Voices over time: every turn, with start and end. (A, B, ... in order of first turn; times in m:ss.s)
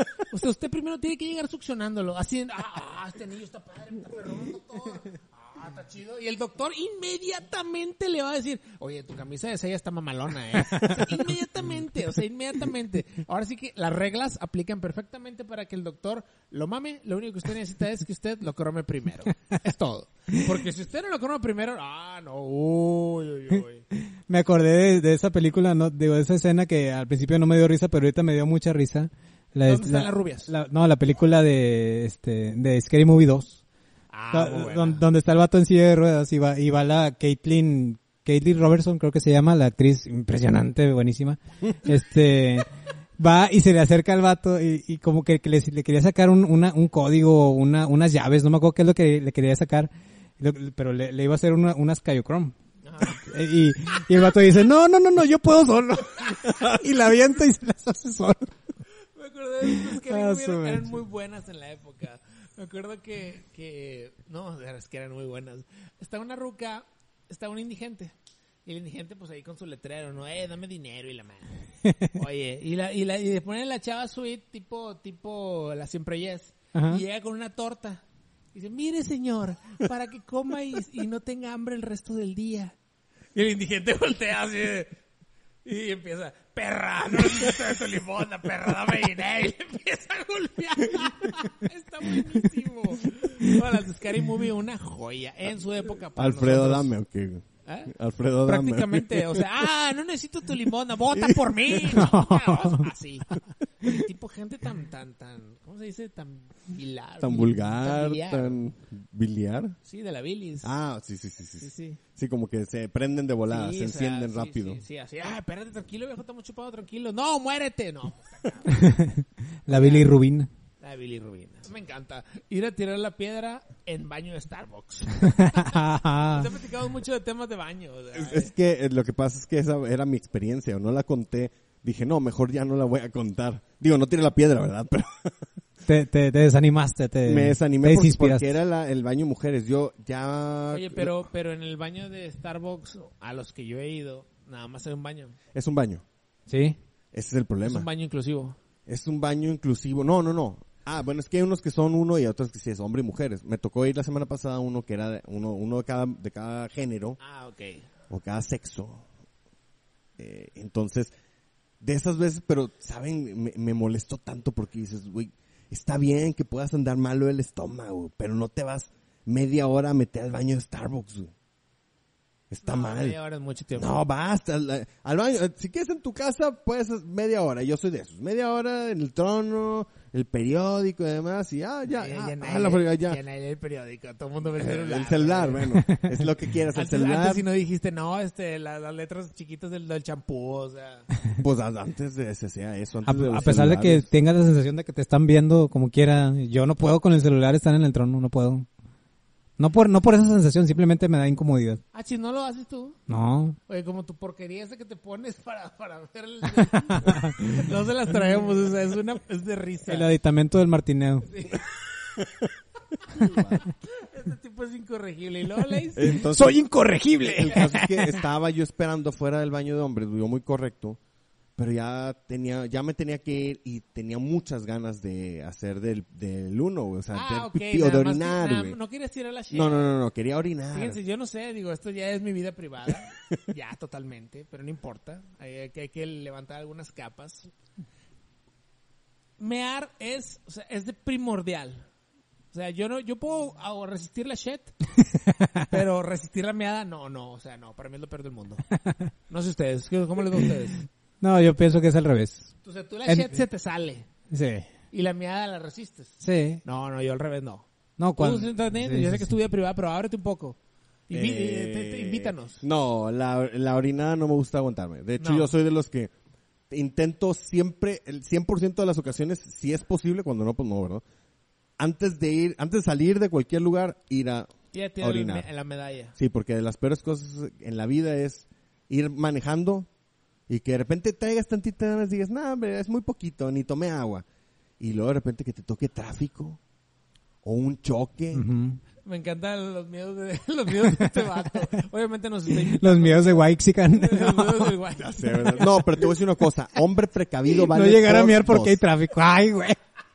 0:00.3-0:23.8 A
0:10.7-0:11.1 B
0:24.0-0:33.6 B
0:29.7-0:30.5 A
0:34.1-0:35.0 A
0:34.3-0:58.5 B
0:52.8-0:53.2 A
0:59.2-1:08.1 A
0:59.6-1:01.0 B
1:08.6-1:11.6 A
1:11.8-1:12.1 B
1:12.1-1:18.0 A
1:16.7-1:17.0 B
1:18.5-1:22.7 A
1:23.3-1:24.9 A
1:25.6-1:36.9 A
1:36.2-1:39.4 C
1:37.6-1:37.9 A
1:38.4-1:48.6 A
1:41.1-1:41.9 C
1:41.9-1:42.9 B
1:47.2-1:49.8 C
1:49.8-1:50.7 A
1:50.6-1:54.8 C
1:51.6-1:52.0 A
1:53.5-1:58.8 A
1:58.7-2:00.5 B
1:59.7-2:00.1 A
2:00.8-2:08.5 A
2:05.2-2:06.5 B
2:08.1-2:15.3 C
2:15.8-2:18.5 B
2:17.2-2:21.1 C
2:20.7-2:25.4 A
2:25.5-2:26.0 C
2:26.5-2:26.8 B
2:27.1-2:27.9 C
2:27.6-2:28.6 A
2:28.8-2:37.2 C
2:37.2-2:37.9 A
2:38.1-2:39.0 C
2:40.2-2:41.1 C
2:41.8-2:51.3 C
2:52.5-2:53.2 C
2:52.6-2:54.0 A
2:53.7-3:03.2 C
3:01.9-3:05.8 A
3:04.6-3:07.5 C
3:05.8-3:06.1 B
3:06.7-3:11.1 A
3:11.4-3:14.1 C
3:13.0-3:18.7 B
3:19.6-3:21.8 B
3:21.9-3:23.0 A
3:23.1-3:23.6 B
3:23.7-3:30.1 A
3:26.7-3:27.6 B
3:29.9-3:31.3 B
3:31.3-3:31.6 A
3:33.2-3:33.6 C
3:33.2-3:36.2 A
3:36.0-3:36.6 C
3:36.3-3:37.8 B
3:37.2-3:41.0 C
3:41.6-3:48.8 C
3:47.1-3:49.9 A
3:49.5-3:51.0 C
3:50.7-3:57.5 A
3:59.4-4:01.8 A
4:02.5-4:04.7 A
4:05.2-4:05.6 B
4:05.7-4:08.6 A
4:09.3-4:10.8 A
4:11.2-4:12.5 B
4:12.6-4:14.1 A
4:13.0-4:13.4 B
4:14.3-4:14.7 B
4:14.9-4:17.6 A
4:16.2-4:16.6 B
4:18.0-4:19.3 B
4:18.2-4:20.6 A
4:21.1-4:22.6 A
4:21.1-4:26.1 C
4:25.2-4:25.5 A
4:26.7-4:31.0 C
4:31.8-4:35.5 C
4:34.7-4:36.1 A
4:36.2-4:39.9 C
4:40.5-4:44.2 C
4:44.8-4:46.6 C
4:47.4-4:48.4 C
4:48.3-4:48.8 B
4:49.0-4:56.0 A
4:52.7-4:54.7 B
4:55.0-4:58.8 C
4:57.7-4:59.8 B